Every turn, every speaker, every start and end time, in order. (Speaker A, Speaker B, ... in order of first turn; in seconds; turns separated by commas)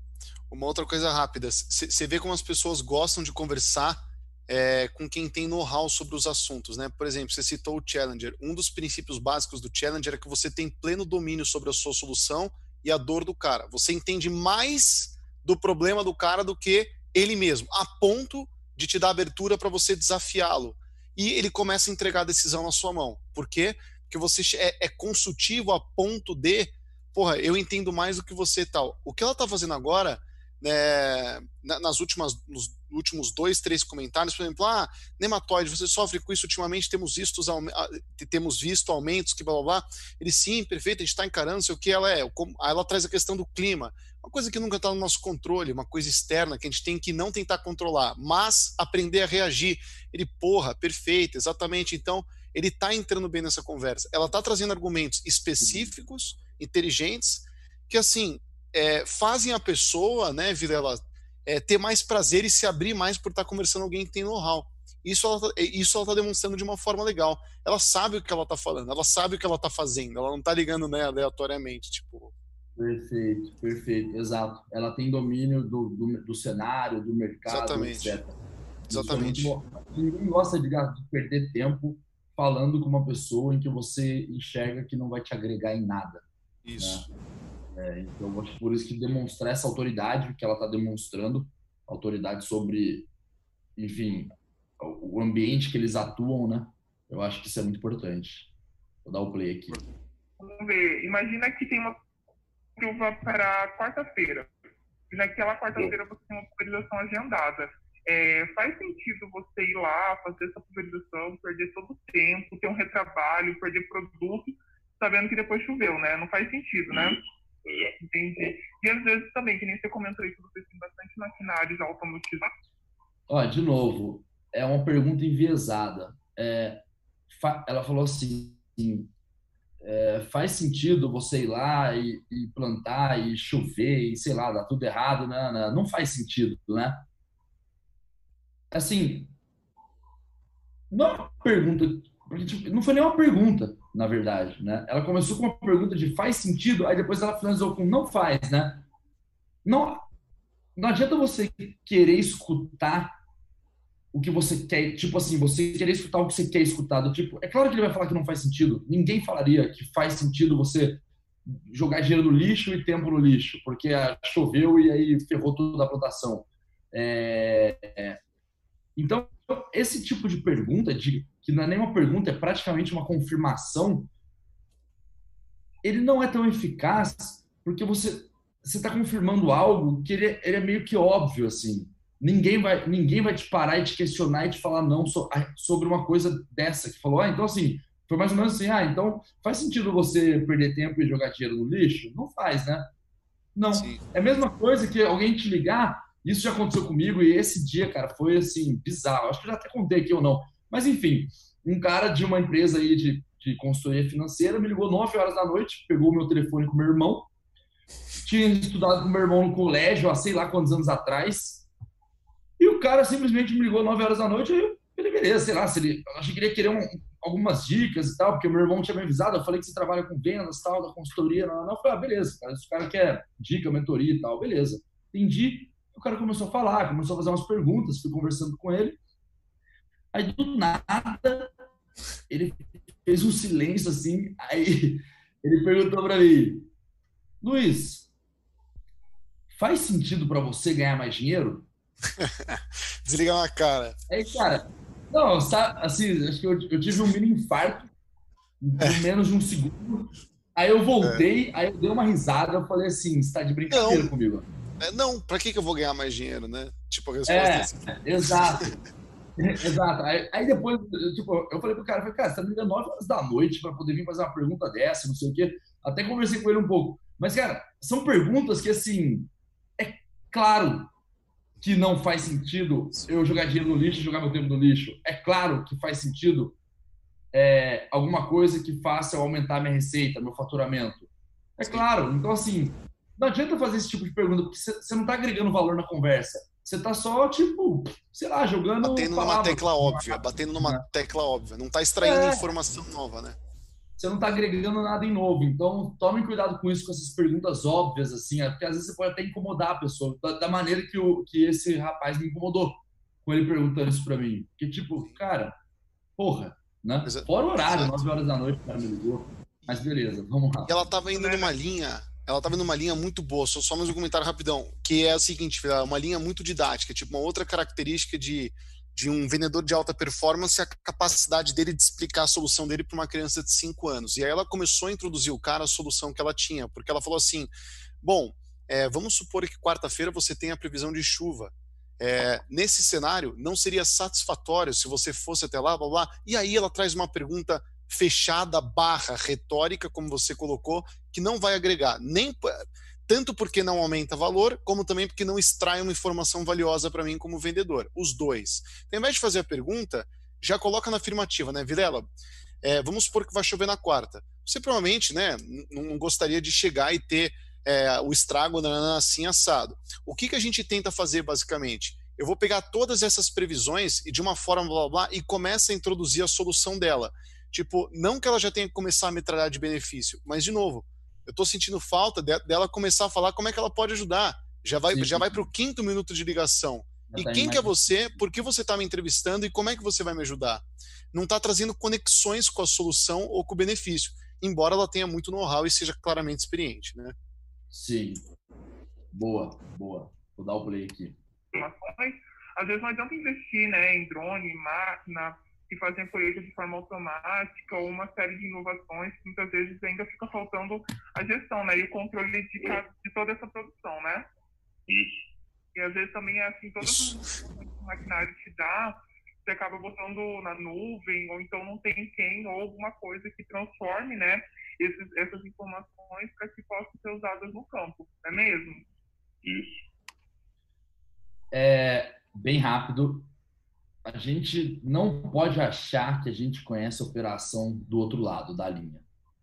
Speaker A: 0.5-72.3, Speaker B: 55.6-55.9, Speaker B: 72.8-78.3, Speaker A: 77.5-78.2, Speaker A: 78.9-79.5, Speaker B: 78.9-86.2, Speaker A: 86.6-87.1, Speaker B: 86.8-87.1, Speaker B: 87.7-93.1, Speaker B: 93.8-98.5, Speaker B: 99.0-99.8, Speaker C: 100.4-102.0, Speaker C: 102.8-104.5, Speaker C: 105.1-117.2, Speaker D: 116.9-118.0, Speaker C: 118.0-122.5, Speaker B: 123.3-129.1, Speaker B: 129.8-137.0, Speaker B: 138.7-139.3, Speaker B: 140.9-148.8, Speaker B: 149.7-150.0, Speaker B: 150.8-153.2, Speaker B: 154.1-168.2, Speaker B: 169.0-174.1, Speaker B: 175.8-192.9, Speaker B: 193.6-207.3, Speaker A: 193.7-194.0, Speaker B: 208.2-211.7, Speaker B: 212.6-229.0, Speaker B: 230.1-231.5, Speaker B: 232.3-236.7, Speaker B: 237.4-238.1, Speaker B: 239.5-241.7, Speaker A: 242.1-244.0, Speaker B: 244.1-247.9, Speaker B: 248.6-254.5, Speaker A: 248.8-249.0, Speaker A: 253.7-254.1, Speaker A: 254.8-258.8, Speaker B: 257.3-258.7, Speaker B: 259.4-270.9, Speaker B: 271.6-276.6, Speaker B: 277.3-290.9, Speaker A: 288.8-293.4, Speaker B: 292.0-292.5, Speaker B: 294.0-305.6, Speaker B: 306.2-310.8, Speaker A: 307.1-308.0, Speaker A: 310.7-352.1, Speaker C: 311.1-311.5, Speaker A: 352.6-387.1, Speaker B: 374.9-375.5, Speaker B: 377.1-378.2, Speaker B: 387.7-388.2, Speaker B: 389.1-391.2, Speaker C: 391.5-404.3, Speaker D: 404.9-405.3, Speaker C: 405.8-418.9, Speaker A: 406.8-407.2, Speaker D: 419.4-419.8, Speaker B: 421.5-423.3, Speaker B: 424.1-429.0